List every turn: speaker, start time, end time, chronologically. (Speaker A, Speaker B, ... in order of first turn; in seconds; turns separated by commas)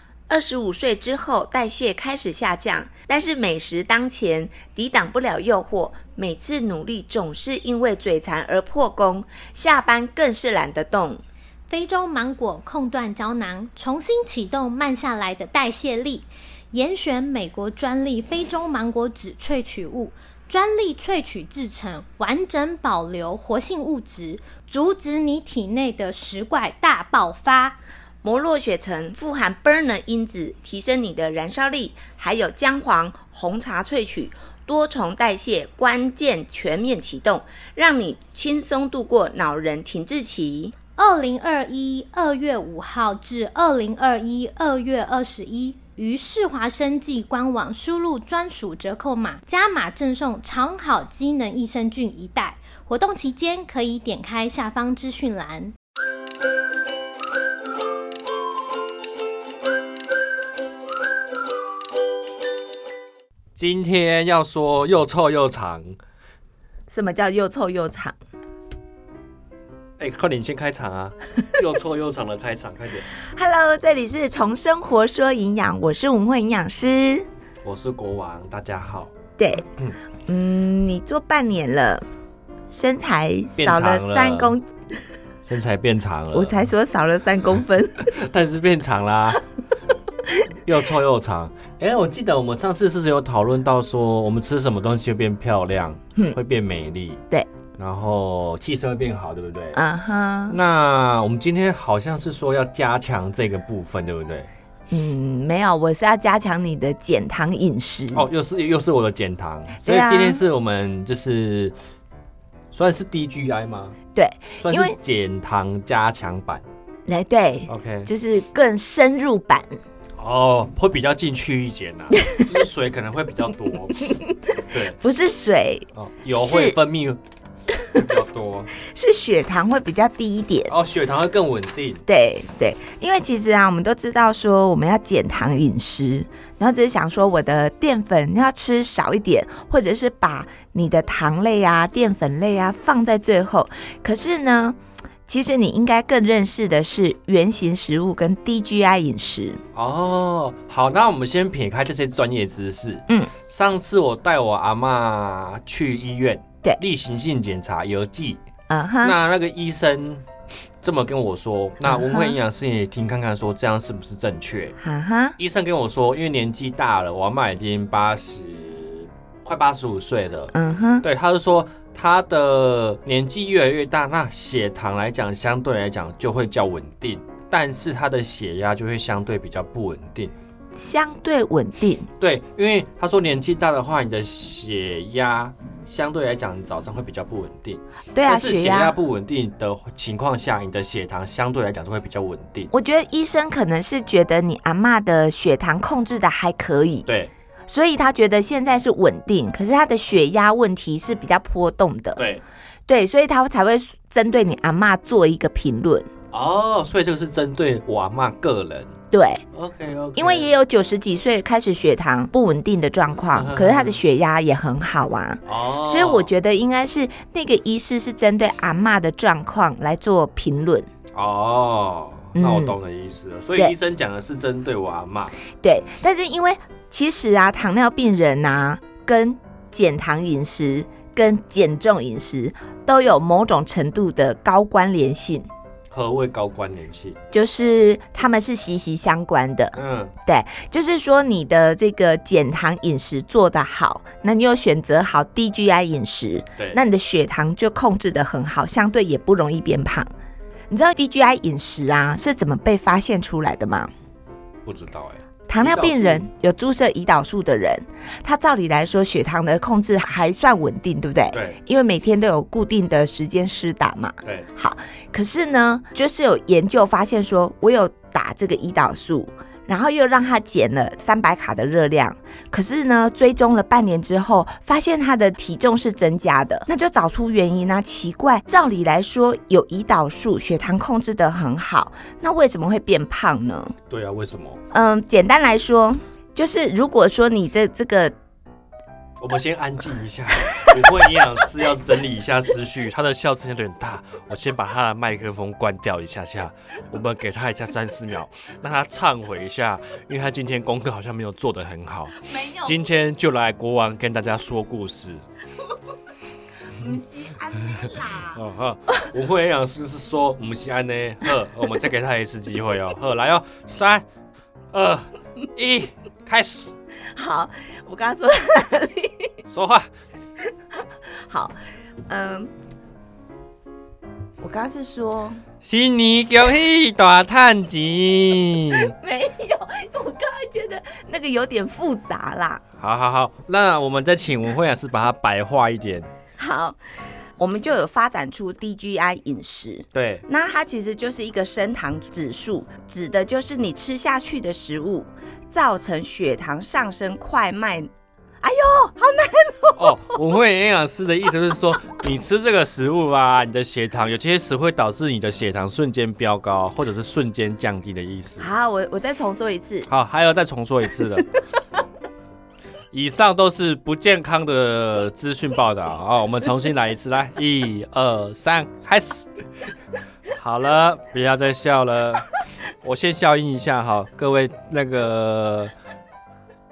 Speaker A: 0.3-11.2, Speaker B: 11.7-27.8, Speaker A: 28.2-40.8, Speaker B: 41.0-55.7, Speaker C: 63.5-66.0, Speaker A: 66.9-68.2, Speaker C: 70.0-73.0, Speaker A: 73.3-77.3, Speaker C: 77.6-79.1, Speaker A: 79.4-79.7, Speaker A: 80.3-82.1, Speaker A: 82.7-84.7, Speaker C: 83.6-84.6, Speaker C: 85.5-86.6, Speaker A: 86.3-88.2, Speaker C: 88.0-89.4, Speaker C: 90.7-97.2, Speaker C: 97.8-99.8, Speaker A: 99.7-100.6, Speaker C: 100.5-104.5, Speaker A: 104.9-108.3, Speaker C: 108.1-111.8, Speaker A: 109.8-110.4, Speaker C: 112.7-114.0, Speaker A: 114.1-115.0, Speaker C: 114.6-116.7, Speaker A: 117.1-119.8, Speaker C: 117.7-118.1, Speaker C: 120.2-124.1, Speaker A: 122.1-122.5, Speaker C: 124.6-125.0, Speaker A: 125.0-126.8, Speaker C: 126.0-127.2, Speaker C: 127.9-128.7, Speaker A: 128.8-130.7, Speaker C: 130.7-132.0, Speaker A: 132.1-149.6, Speaker C: 149.7-158.4, Speaker A: 158.7-159.2, Speaker C: 159.0-160.3, Speaker C: 160.8-164.8, Speaker A: 161.8-162.4, Speaker A: 164.8-165.4, Speaker C: 165.4-180.3, Speaker A: 170.5-171.1, Speaker A: 180.8-182.1, Speaker C: 182.2-192.7, Speaker A: 188.1-189.0, Speaker A: 192.7-197.1, Speaker C: 197.1-197.3, Speaker A: 197.7-202.2, Speaker C: 202.2-202.4, Speaker A: 202.9-206.1, Speaker C: 206.3-208.9, Speaker A: 209.1-209.4, Speaker C: 209.5-210.5, Speaker A: 210.2-220.9, Speaker C: 213.3-214.0, Speaker C: 215.5-216.3, Speaker C: 221.1-225.3, Speaker A: 222.3-222.8, Speaker A: 225.6-235.5, Speaker C: 235.9-237.2, Speaker A: 237.3-250.1, Speaker C: 239.8-240.1, Speaker A: 250.7-253.9, Speaker C: 254.7-256.2, Speaker A: 255.5-283.8, Speaker C: 261.3-261.6, Speaker C: 283.9-284.6, Speaker A: 284.7-288.1, Speaker C: 289.2-305.2, Speaker A: 302.2-302.8, Speaker A: 306.7-308.4, Speaker C: 307.7-314.1, Speaker C: 314.7-316.8, Speaker A: 317.1-319.3, Speaker C: 319.5-319.9, Speaker A: 321.1-321.6, Speaker A: 322.1-322.5, Speaker A: 324.4-325.4, Speaker C: 325.6-328.9, Speaker A: 328.7-332.6, Speaker C: 332.8-336.1, Speaker A: 336.4-336.8, Speaker A: 337.4-347.9, Speaker C: 339.9-340.2, Speaker A: 348.4-349.9, Speaker C: 349.8-358.5, Speaker A: 358.4-359.9, Speaker C: 359.9-361.3, Speaker C: 362.9-369.3, Speaker C: 370.4-372.3, Speaker C: 372.8-375.7